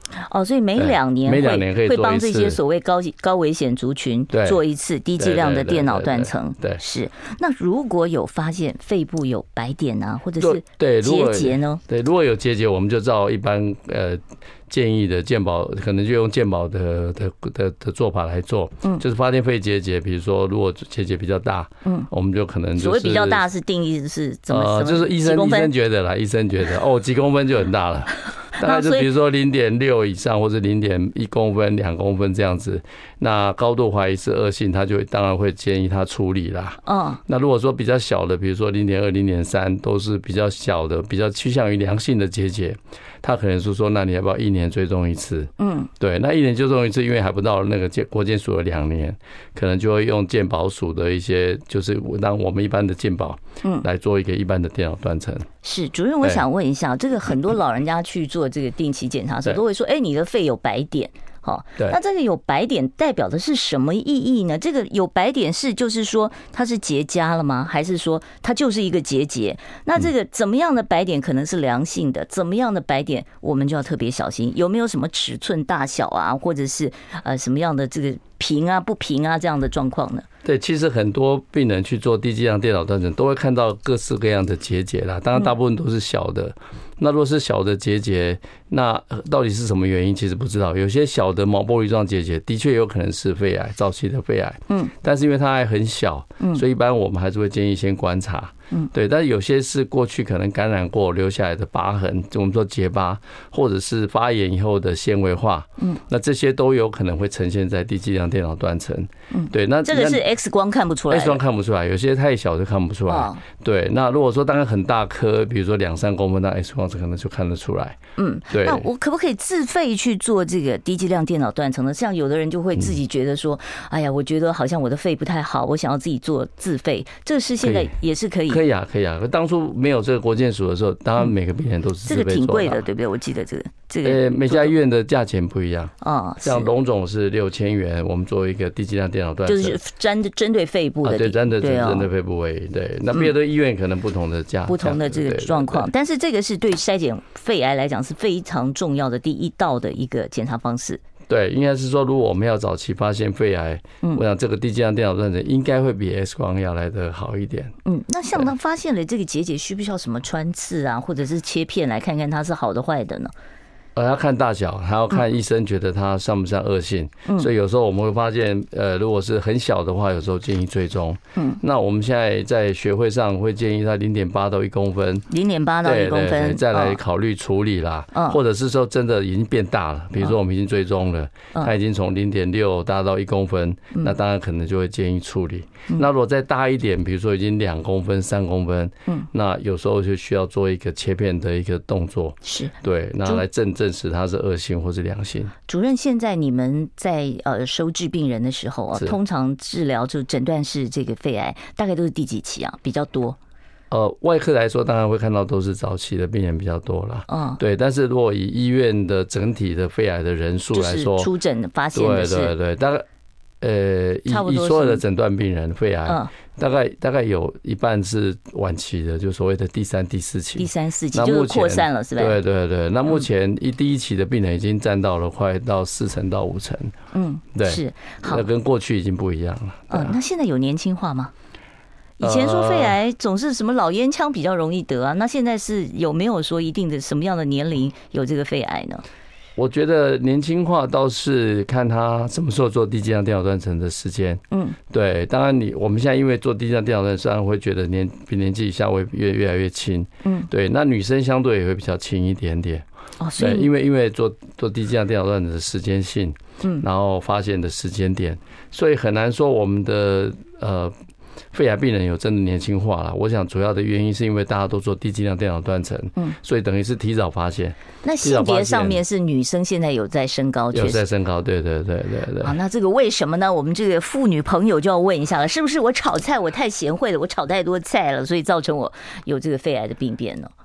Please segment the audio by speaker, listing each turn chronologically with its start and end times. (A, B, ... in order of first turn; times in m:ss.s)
0:00.2-0:11.8 A
0:00.8-0:02.6 B
0:04.3-0:04.6 B
0:05.2-0:06.8 B
0:10.4-0:23.4 B
0:22.8-0:25.7 A
0:24.5-0:55.5 B
0:28.5-0:29.1 A
0:36.8-0:37.2 A
0:45.6-0:45.9 A
0:55.6-1:20.2 A
1:20.4-1:50.2 B
1:49.3-1:51.4 A
1:51.1-1:58.0 B
1:53.1-1:53.4 A
1:58.2-2:08.6 A
1:58.5-1:58.8 B
2:07.6-2:07.9 B
2:08.5-2:12.8 B
2:12.0-2:14.7 A
2:14.0-2:19.8 B
2:16.0-2:16.7 A
2:19.4-2:22.1 A
2:21.0-2:25.9 B
2:24.7-2:31.0 A
2:31.3-2:37.7 B
2:37.8-2:43.3 A
2:43.9-2:55.3 B
2:55.3-2:57.0 A
2:55.8-3:15.5 B
3:12.4-3:12.7 A
3:15.7-3:23.4 A
3:23.9-3:31.3 B
3:27.3-3:27.6 A
3:30.7-3:32.5 A
3:31.9-3:33.0 B
3:33.6-3:46.9 B
3:34.3-3:35.0 A
3:40.6-3:42.4 A
3:47.1-3:48.4 A
3:47.5-3:50.2 B
3:49.9-3:51.3 A
3:52.2-3:59.0 A
3:52.2-3:53.0 B
3:59.6-4:12.8 B
4:04.5-4:04.8 A
4:13.2-4:13.7 A
4:13.4-4:20.9 B
4:21.5-4:29.0 B
4:28.0-4:31.0 A
4:30.7-4:32.6 B
4:32.4-4:40.5 A